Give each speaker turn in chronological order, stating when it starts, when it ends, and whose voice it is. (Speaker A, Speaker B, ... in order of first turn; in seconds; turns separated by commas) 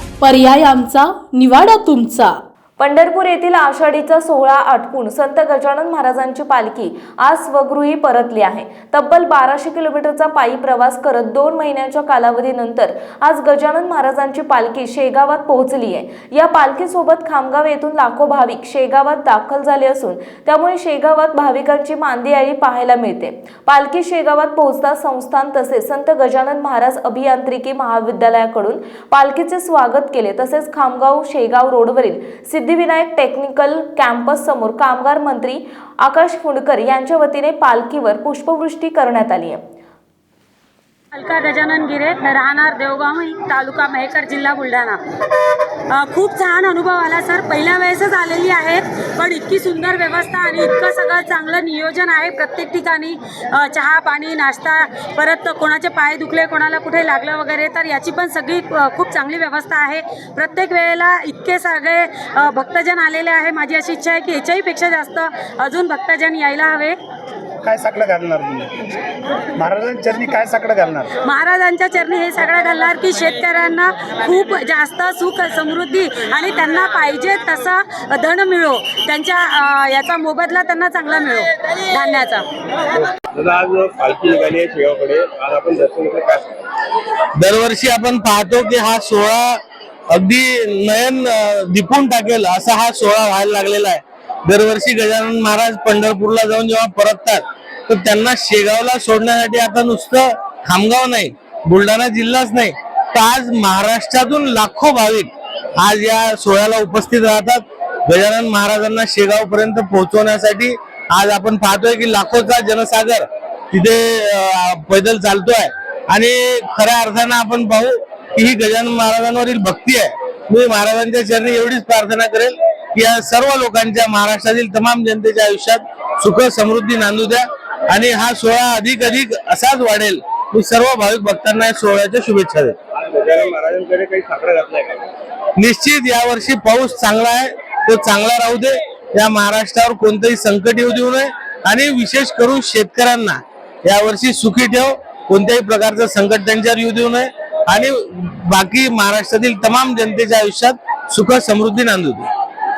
Speaker A: 0.2-2.4, Speaker B: 2.8-39.6, Speaker C: 41.1-45.0, Speaker C: 45.9-67.0, Speaker D: 67.7-68.7, Speaker D: 69.5-71.1, Speaker C: 71.2-82.5, Speaker E: 83.3-86.6, Speaker F: 87.4-132.7, Speaker E: 133.0-135.0, Speaker F: 135.6-152.3